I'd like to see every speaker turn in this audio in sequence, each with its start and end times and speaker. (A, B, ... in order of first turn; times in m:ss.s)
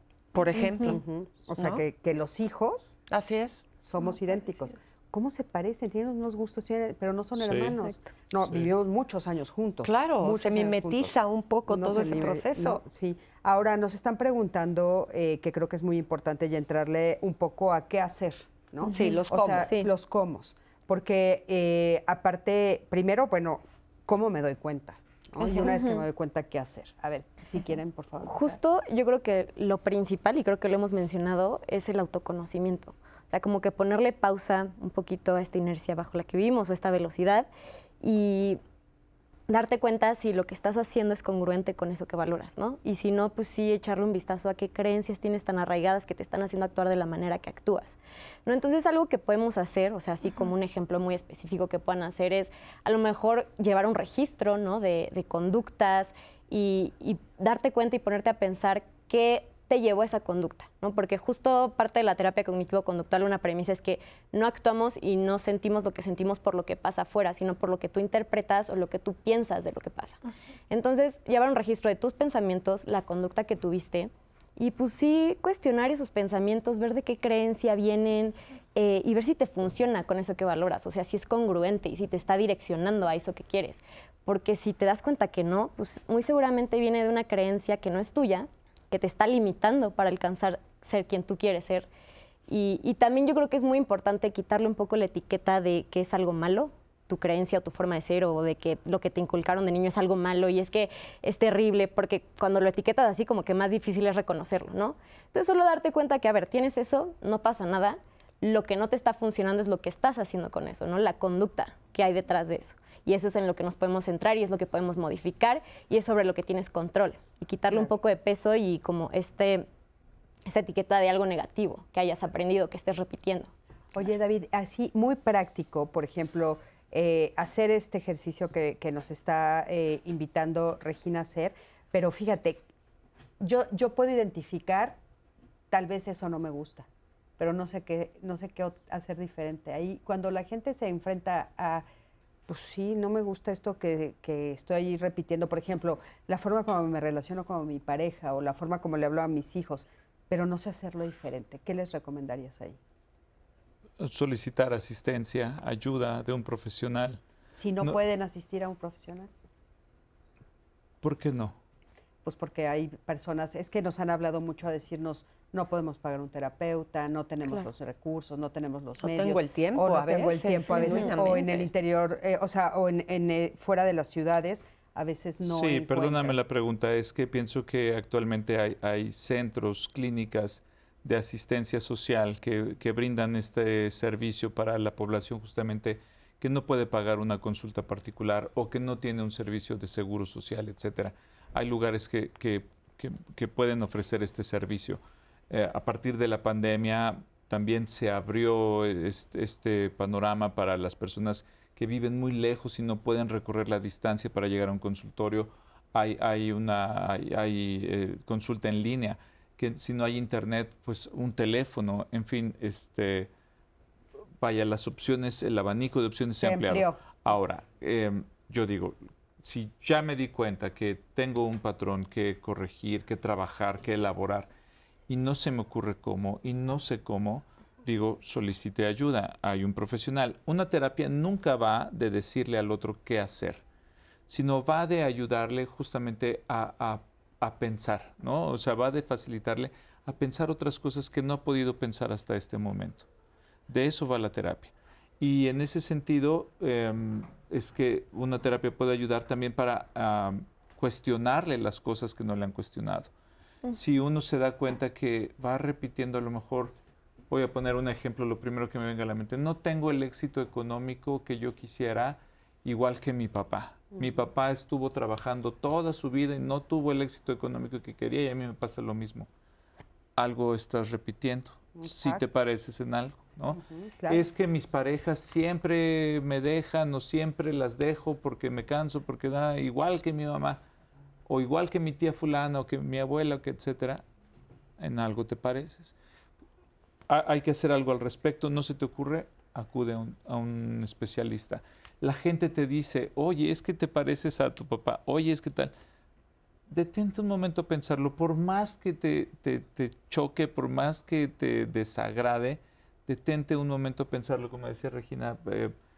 0:00.3-0:01.0 A
0:00.8-0:03.0 B
0:03.1-0:03.7 A
0:03.8-0:11.2 B
0:07.4-0:07.8 C
0:09.8-0:12.8 A
0:11.7-0:28.6 B
0:18.8-0:19.9 D
0:18.9-0:19.7 A
0:25.4-0:26.0 D
0:28.2-0:37.5 D
0:38.0-0:38.6 D
0:39.5-1:10.2 D
1:10.7-1:31.9 D
1:32.5-1:59.7 D
2:00.5-2:03.5 D
2:03.9-2:12.6 B
2:13.4-2:15.0 B
2:15.7-2:16.9 B
2:17.4-2:21.9 B
2:22.5-2:32.8 B
2:34.0-2:37.2 C
2:37.6-2:39.3 B
2:41.0-2:41.6 C
2:42.2-2:56.4 B
2:49.0-2:51.7 A
2:50.7-2:51.3 D
2:55.4-3:33.3 C
3:34.4-3:44.5 C
3:36.4-3:37.0 B
3:45.1-3:53.6 C
3:54.3-4:03.1 C
4:03.7-4:13.1 C
4:13.7-4:16.7 C
4:17.3-4:29.3 C
4:30.2-4:40.6 C
4:31.8-4:32.3 B
4:33.6-4:34.2 B
4:41.3-4:44.0 C
4:44.8-4:46.0 C
4:47.1-4:55.7 C
4:56.7-5:05.7 C